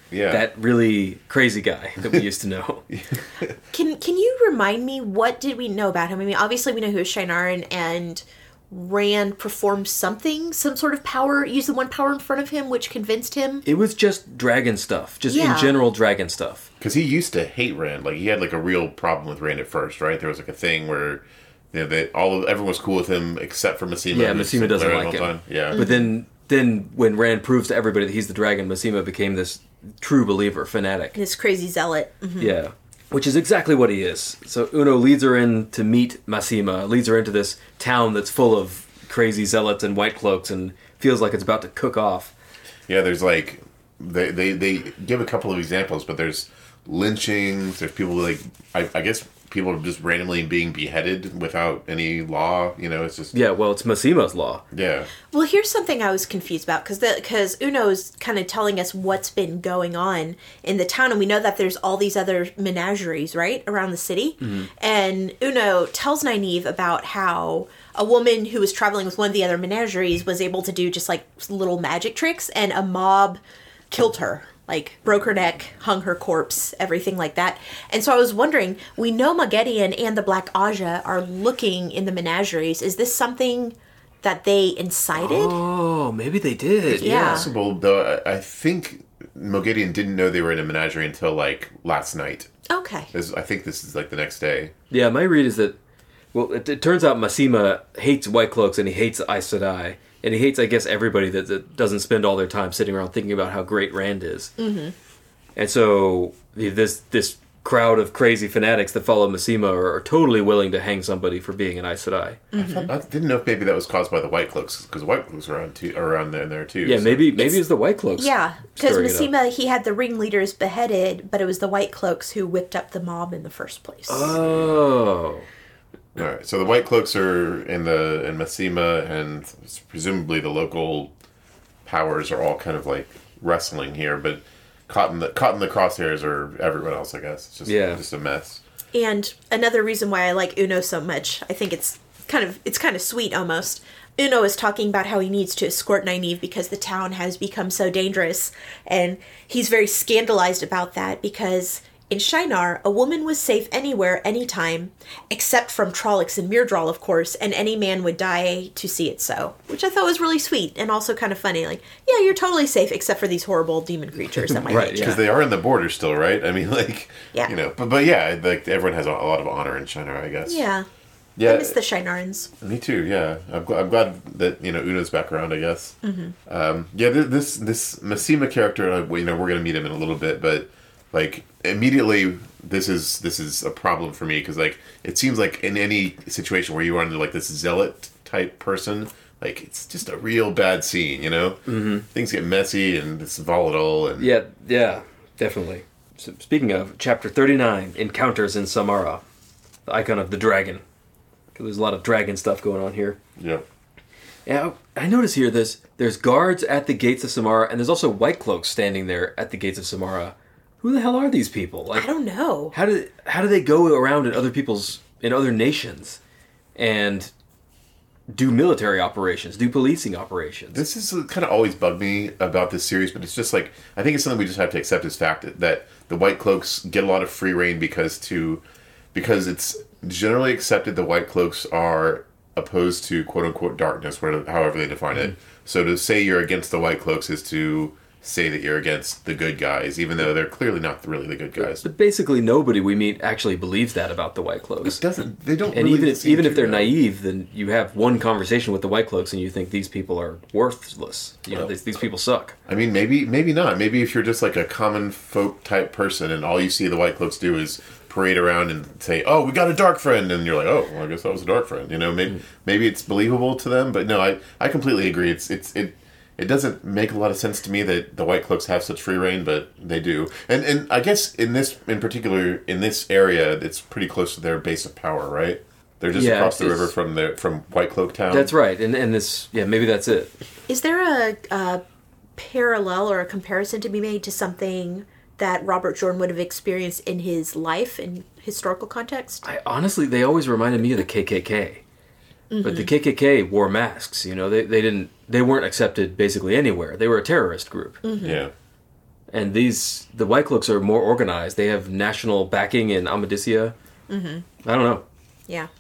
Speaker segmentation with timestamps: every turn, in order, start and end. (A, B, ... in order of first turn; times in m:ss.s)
0:00.1-0:00.5 A
0:00.3-0:02.9 B
0:02.9-0:03.6 A
0:03.7-0:13.6 C
0:13.7-0:16.7 B
0:15.3-0:15.8 C
0:16.8-0:25.8 A
0:24.1-0:31.2 B
0:25.7-0:26.1 C
0:31.2-0:32.6 C
0:32.4-0:42.3 B
0:42.9-0:53.4 A
0:53.3-0:54.6 B
0:54.7-0:55.1 A
0:55.3-1:13.4 C
1:04.4-1:04.7 B
1:13.9-1:25.6 C
1:25.2-1:27.5 B
1:26.9-1:32.5 A
1:27.0-1:27.5 C
1:32.7-1:33.1 C
1:33.1-1:34.7 A
1:34.9-1:35.8 B
1:36.3-1:44.6 B
1:44.6-1:44.9 C
1:45.6-1:52.5 B
1:52.5-1:52.9 C
1:52.6-1:57.3 A
1:56.8-1:59.3 B
1:58.2-2:04.4 C
2:04.1-2:05.5 B
2:04.3-2:04.8 A
2:06.2-2:11.1 A
2:11.8-2:18.6 A
2:17.7-2:18.0 B
2:18.9-2:45.2 C
2:44.6-2:45.2 B
2:44.7-2:50.6 A
2:50.5-2:50.9 C
2:51.4-2:51.8 A
2:51.5-2:52.5 C
2:52.6-3:14.3 A
2:56.0-2:56.4 C
3:11.7-3:12.1 B
3:14.2-3:19.2 B
3:19.9-3:20.8 B
3:21.6-3:23.2 B
3:23.4-3:23.6 A
3:24.5-3:32.1 B
3:31.9-3:32.8 C
3:32.7-3:36.2 B
3:36.8-3:37.3 B
3:38.3-3:40.8 B
3:40.7-4:01.9 A
4:01.7-4:05.0 B
4:04.8-4:07.0 A
4:05.7-4:12.6 B
4:12.7-4:38.5 A
4:36.1-4:36.9 B
4:38.3-4:40.3 B
4:40.7-4:41.8 C
4:42.4-4:49.4 C
4:49.4-4:51.8 B
4:52.5-4:52.9 C
4:52.6-4:58.0 B
4:58.0-4:58.4 C
4:58.2-4:58.5 A
4:59.3-5:03.8 B
5:04.1-5:04.5 C
5:04.6-5:05.0 B